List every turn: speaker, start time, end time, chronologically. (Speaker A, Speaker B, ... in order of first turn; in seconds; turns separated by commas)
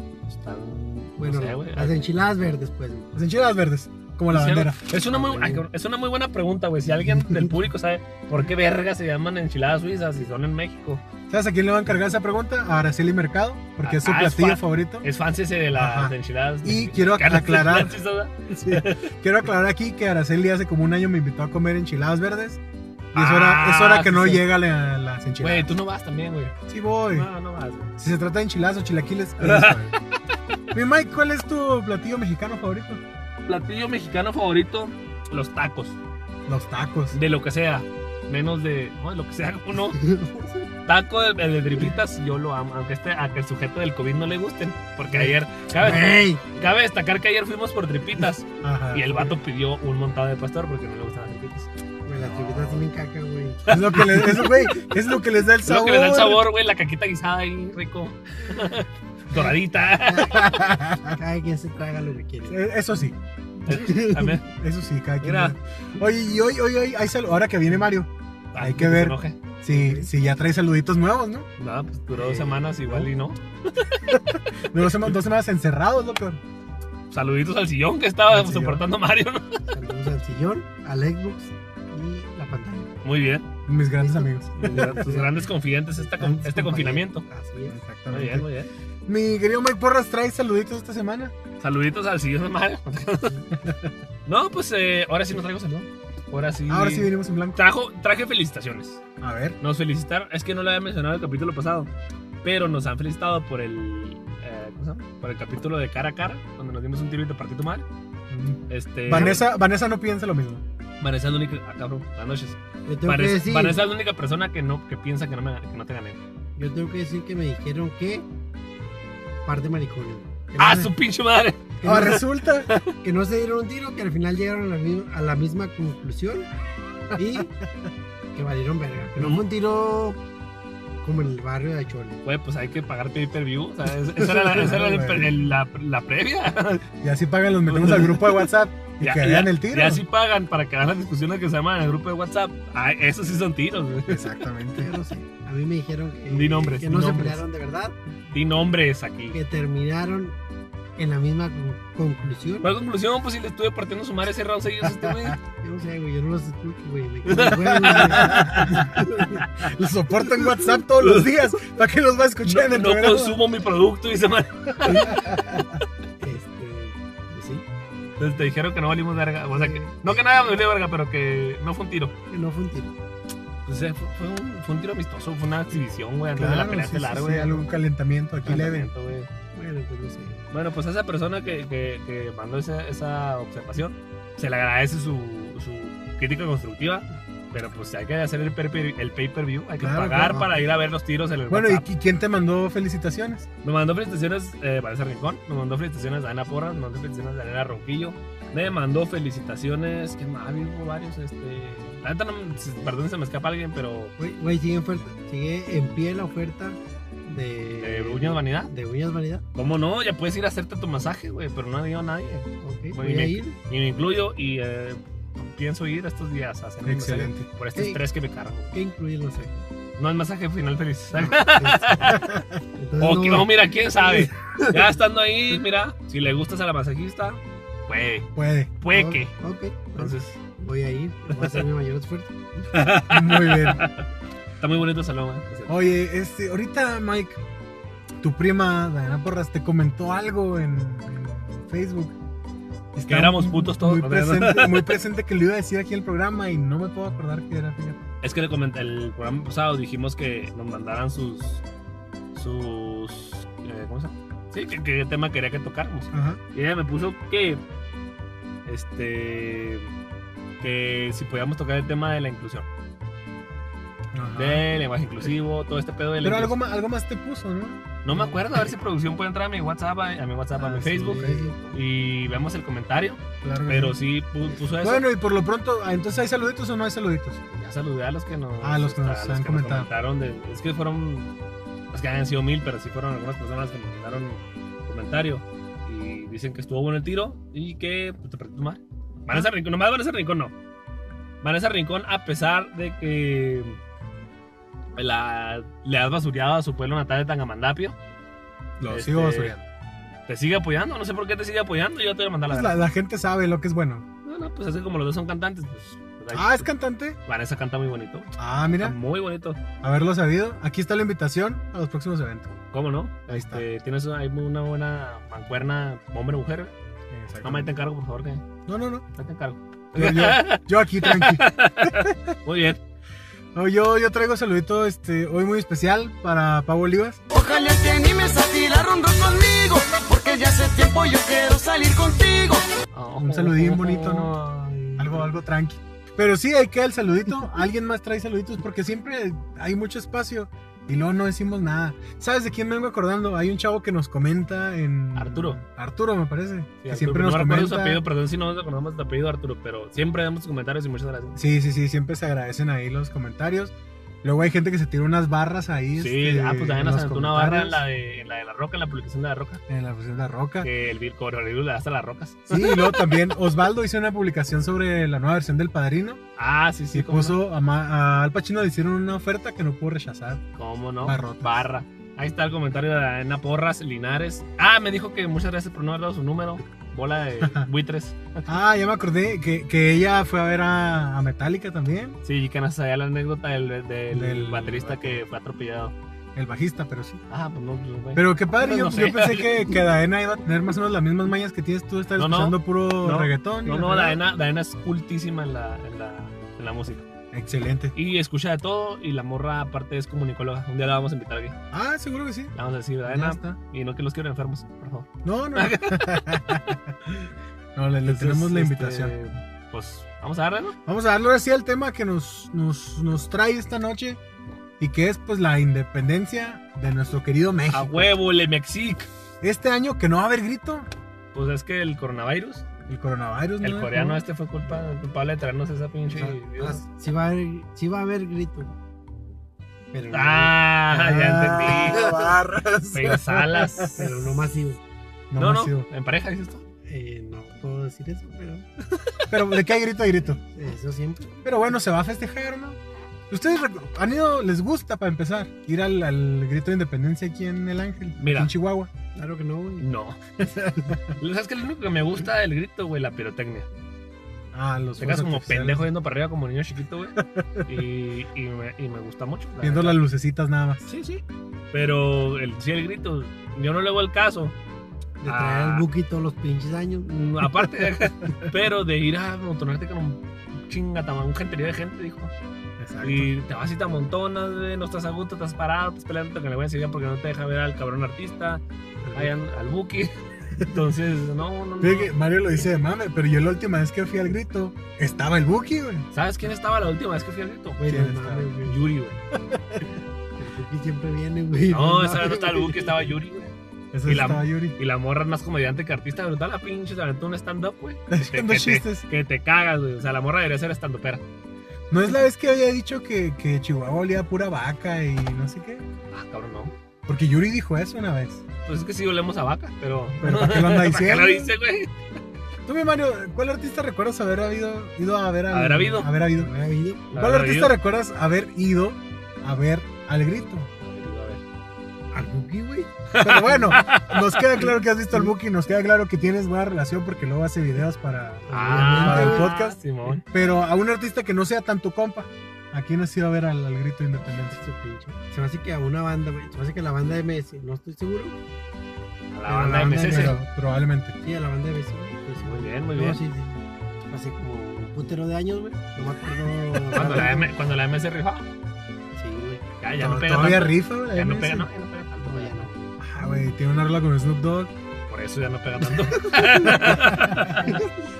Speaker A: 0.3-2.0, Speaker B: 1.2-3.1, Speaker C: 3.1-4.9, Speaker A: 4.3-11.0, Speaker B: 5.1-5.6, Speaker B: 7.0-7.6, Speaker C: 11.3-15.1, Speaker A: 13.8-19.1, Speaker C: 15.7-17.9, Speaker C: 18.5-22.6, Speaker C: 23.1-25.7, Speaker A: 23.1-24.4, Speaker A: 25.4-26.6, Speaker C: 26.7-27.3, Speaker A: 27.1-27.9, Speaker C: 28.0-29.9, Speaker A: 29.4-30.0, Speaker C: 30.7-33.0, Speaker A: 33.5-36.0, Speaker C: 36.5-37.1, Speaker A: 37.1-40.0, Speaker B: 39.9-40.7, Speaker A: 40.9-52.8, Speaker B: 45.1-46.5, Speaker C: 48.6-49.2, Speaker B: 52.1-53.6, Speaker A: 53.6-54.4, Speaker C: 53.7-56.4, Speaker A: 55.6-60.4, Speaker B: 59.3-62.6, Speaker C: 60.3-61.2, Speaker C: 62.5-63.1, Speaker A: 63.7-64.5, Speaker B: 63.7-64.4, Speaker C: 64.5-71.5, Speaker A: 65.2-65.5, Speaker A: 68.5-69.4, Speaker B: 69.7-70.1, Speaker A: 71.6-73.9, Speaker B: 72.1-73.1, Speaker C: 74.1-76.4, Speaker A: 77.1-79.6, Speaker C: 78.3-78.8, Speaker B: 79.7-82.9, Speaker A: 83.0-83.5, Speaker C: 83.7-85.0, Speaker B: 84.0-85.4, Speaker A: 84.6-87.2, Speaker B: 86.0-87.8, Speaker C: 87.7-88.4, Speaker A: 88.1-88.7, Speaker C: 89.1-91.3, Speaker A: 91.6-93.4, Speaker C: 93.6-93.9, Speaker A: 94.2-99.0, Speaker C: 96.7-97.6, Speaker C: 99.2-99.6, Speaker A: 99.6-101.9, Speaker A: 102.4-107.9, Speaker C: 108.3-110.6, Speaker A: 108.7-109.4, Speaker A: 111.0-116.2, Speaker B: 112.9-113.8, Speaker B: 116.6-118.2, Speaker B: 119.4-120.9, Speaker A: 120.6-122.9, Speaker B: 121.8-122.3, Speaker C: 121.8-122.7, Speaker B: 123.0-126.5, Speaker B: 127.1-127.6, Speaker C: 127.2-127.4, Speaker B: 128.3-130.2, Speaker B: 131.0-132.2, Speaker A: 132.2-136.9, Speaker C: 134.5-135.3, Speaker C: 137.0-140.0, Speaker A: 137.7-138.2, Speaker A: 139.0-144.3, Speaker C: 144.1-144.9, Speaker B: 144.8-147.9, Speaker A: 146.3-147.4, Speaker A: 148.3-149.4, Speaker B: 149.3-150.4, Speaker B: 151.0-152.7, Speaker A: 152.6-155.4, Speaker C: 154.9-155.4, Speaker B: 155.6-159.5, Speaker A: 157.2-159.0, Speaker C: 157.8-159.1, Speaker C: 159.6-163.4, Speaker A: 161.0-161.3, Speaker A: 162.4-165.4, Speaker B: 164.9-165.4, Speaker B: 166.2-167.6, Speaker A: 168.2-172.1, Speaker B: 169.5-170.1, Speaker B: 172.3-172.9, Speaker A: 173.7-177.6, Speaker C: 176.4-178.9, Speaker A: 178.4-179.3, Speaker B: 179.6-180.4, Speaker A: 180.5-191.9, Speaker C: 189.8-190.4, Speaker C: 191.5-193.5, Speaker A: 193.6-204.1, Speaker B: 204.2-209.4, Speaker A: 207.8-208.7, Speaker A: 209.6-218.7, Speaker B: 212.6-213.6, Speaker C: 216.8-217.5, Speaker B: 217.8-218.0, Speaker B: 218.7-219.6, Speaker A: 220.0-222.2, Speaker B: 221.2-222.1, Speaker C: 222.0-222.6, Speaker B: 222.8-224.8, Speaker A: 223.0-228.3, Speaker C: 228.3-228.7, Speaker A: 228.8-229.3, Speaker B: 228.9-232.4, Speaker A: 229.9-230.4, Speaker A: 232.7-234.1, Speaker C: 233.1-233.9, Speaker A: 234.6-235.8, Speaker C: 235.7-237.4, Speaker C: 238.2-242.1, Speaker C: 242.9-248.0, Speaker A: 243.1-244.9, Speaker A: 248.2-251.6, Speaker A: 252.3-257.6, Speaker C: 256.1-256.4, Speaker A: 258.6-259.9, Speaker A: 260.6-262.7, Speaker C: 264.1-264.6, Speaker A: 264.4-266.6, Speaker C: 266.2-267.9, Speaker A: 268.0-275.0, Speaker C: 270.6-271.6, Speaker B: 271.0-271.7, Speaker C: 273.4-274.0, Speaker C: 274.7-277.4, Speaker A: 277.5-281.3, Speaker C: 278.6-279.9, Speaker A: 281.9-290.5, Speaker A: 291.4-293.8, Speaker A: 295.0-298.0, Speaker C: 298.8-299.6, Speaker A: 298.9-299.5, Speaker A: 300.3-302.8, Speaker C: 302.5-304.1, Speaker A: 304.2-306.7, Speaker C: 306.3-307.2, Speaker A: 307.2-309.6, Speaker C: 308.4-309.0, Speaker C: 309.8-312.6, Speaker A: 312.7-316.7, Speaker C: 313.3-313.6, Speaker C: 317.1-317.7, Speaker A: 317.4-318.4, Speaker C: 318.7-319.0, Speaker A: 319.1-322.8, Speaker C: 319.9-322.3, Speaker C: 323.5-327.2, Speaker D: 327.3-332.7, Speaker A: 332.9-335.3, Speaker C: 333.2-334.3, Speaker C: 335.0-348.0, Speaker A: 345.1-345.6, Speaker A: 346.8-351.4, Speaker C: 351.4-357.8, Speaker A: 356.0-359.6, Speaker C: 359.7-360.7, Speaker A: 360.6-363.2, Speaker C: 362.5-366.2, Speaker A: 366.4-367.4, Speaker C: 366.9-370.4, Speaker A: 370.6-378.5, Speaker C: 371.0-371.6, Speaker C: 377.4-377.7, Speaker C: 378.5-382.2, Speaker A: 382.2-385.9, Speaker C: 384.1-385.2, Speaker C: 386.4-387.2, Speaker A: 387.3-389.7, Speaker C: 388.1-394.2, Speaker A: 392.2-397.1, Speaker C: 397.3-397.9, Speaker A: 397.9-401.6, Speaker C: 401.7-402.5, Speaker A: 402.5-406.4, Speaker C: 403.1-403.6, Speaker C: 405.2-406.9, Speaker C: 407.8-409.1, Speaker A: 408.0-410.8, Speaker C: 410.9-414.2, Speaker C: 414.8-418.1, Speaker A: 417.7-419.1, Speaker C: 419.4-420.9, Speaker A: 421.3-422.6, Speaker C: 422.9-424.2, Speaker A: 423.6-426.8, Speaker B: 426.1-428.8, Speaker B: 429.9-430.5, Speaker A: 430.1-432.1, Speaker C: 430.9-434.1, Speaker B: 431.7-432.3, Speaker A: 432.9-434.0, Speaker B: 433.9-434.8, Speaker C: 435.3-435.9, Speaker A: 435.4-436.6, Speaker B: 436.9-438.6, Speaker C: 439.3-440.4, Speaker B: 440.5-441.5, Speaker C: 441.4-442.8, Speaker C: 443.3-448.9, Speaker A: 448.2-448.5, Speaker B: 449.1-449.9, Speaker A: 449.8-450.2, Speaker C: 450.4-451.0, Speaker A: 451.2-453.7, Speaker C: 454.5-455.9, Speaker A: 455.0-460.0, Speaker C: 457.2-457.6, Speaker C: 459.6-460.9, Speaker A: 460.9-461.2, Speaker A: 461.7-464.5, Speaker B: 465.2-467.1, Speaker A: 465.2-465.9, Speaker A: 467.1-472.3, Speaker C: 472.8-473.3, Speaker A: 473.0-478.6, Speaker B: 479.0-479.3, Speaker A: 479.1-482.1, Speaker C: 481.8-486.1, Speaker A: 486.1-487.9, Speaker B: 487.8-488.8, Speaker C: 487.9-488.5, Speaker A: 488.6-489.2, Speaker C: 489.5-489.8, Speaker B: 490.4-493.2, Speaker A: 491.7-493.5, Speaker C: 493.9-494.8, Speaker A: 494.1-501.2, Speaker C: 498.1-499.0, Speaker C: 501.9-505.9, Speaker A: 506.1-506.8, Speaker C: 507.1-508.4, Speaker A: 508.6-511.9, Speaker C: 510.2-511.5, Speaker C: 512.6-516.5, Speaker A: 515.5-516.1, Speaker B: 516.3-517.1, Speaker A: 517.1-517.8, Speaker C: 517.1-520.7, Speaker A: 520.8-521.4, Speaker B: 522.1-523.8, Speaker A: 523.1-524.6, Speaker C: 523.2-534.6, Speaker B: 528.5-529.5, Speaker A: 528.5-530.2, Speaker B: 534.5-538.4, Speaker A: 539.3-540.4, Speaker B: 539.5-540.4, Speaker C: 539.5-541.2, Speaker B: 541.2-543.6, Speaker A: 542.4-543.2, Speaker B: 544.1-547.5, Speaker A: 546.9-548.5, Speaker B: 549.1-549.6, Speaker A: 549.8-552.7, Speaker C: 550.0-551.7, Speaker B: 552.2-553.0, Speaker C: 553.0-554.7, Speaker A: 555.1-557.8, Speaker C: 556.6-557.7, Speaker B: 557.5-557.9